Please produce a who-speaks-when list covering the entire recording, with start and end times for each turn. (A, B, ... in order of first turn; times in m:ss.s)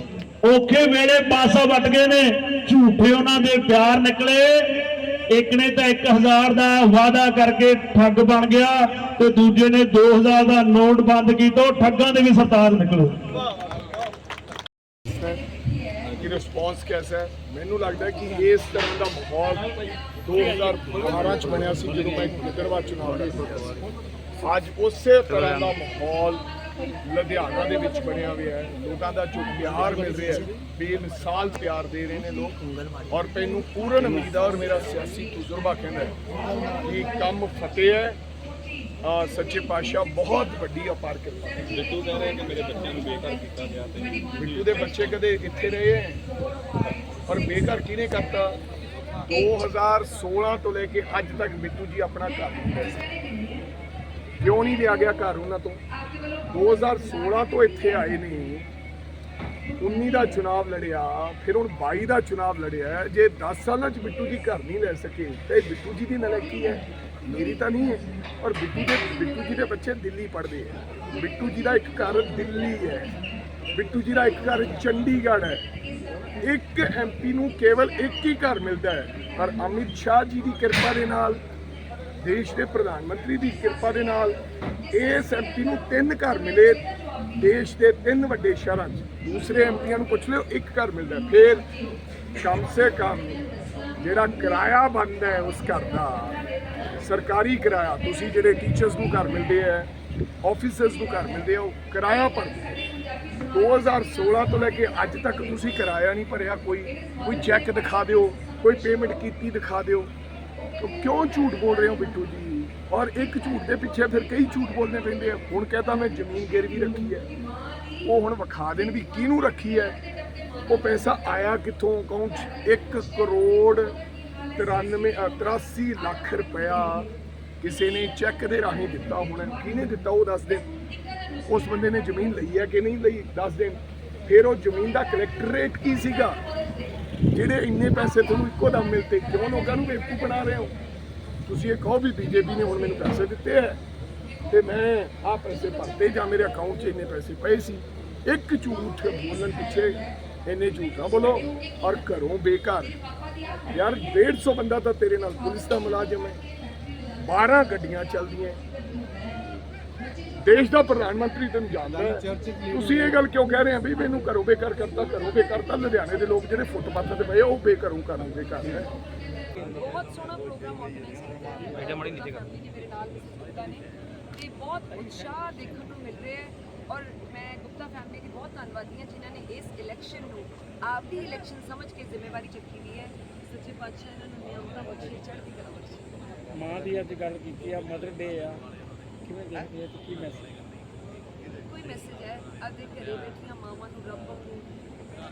0:00.4-0:13.2 A
0:16.2-0:19.7 B
0:20.2-0:23.7 B
0:24.4-0:26.4 B
0:27.0-0:36.2 B
0:36.8-0:38.2 B
0:39.0-0:41.5 B
0:41.6-0:44.8 C
0:44.3-0:46.2 B
0:47.3-0:48.6 B
0:49.3-0:53.1 B
0:54.4-0:55.8 B
0:56.5-0:58.7 B
0:59.8-1:13.1 B
1:13.7-1:15.6 B
1:16.4-1:21.4 B
1:22.2-1:24.4 B
1:24.9-1:26.8 B
1:27.4-1:31.6 B
1:32.4-1:33.4 B
1:34.0-1:36.4 B
1:37.0-1:39.9 B
1:40.4-1:42.8 B
1:43.5-1:50.1 B
1:50.8-1:57.3 B
1:58.0-2:00.0 B
2:00.7-2:04.0 B
2:04.5-2:07.1 B
2:07.6-2:10.7 B
2:11.5-2:16.4 B
2:17.3-2:20.7 B
2:21.4-2:23.8 B
2:24.5-2:33.0 B
2:33.7-2:36.4 B
2:37.2-2:38.6 B
2:40.4-2:48.9 B
2:49.6-3:06.0 D
2:51.9-2:52.4 C
3:06.5-3:08.6 E
3:09.2-3:10.5 E
3:11.6-3:14.8 D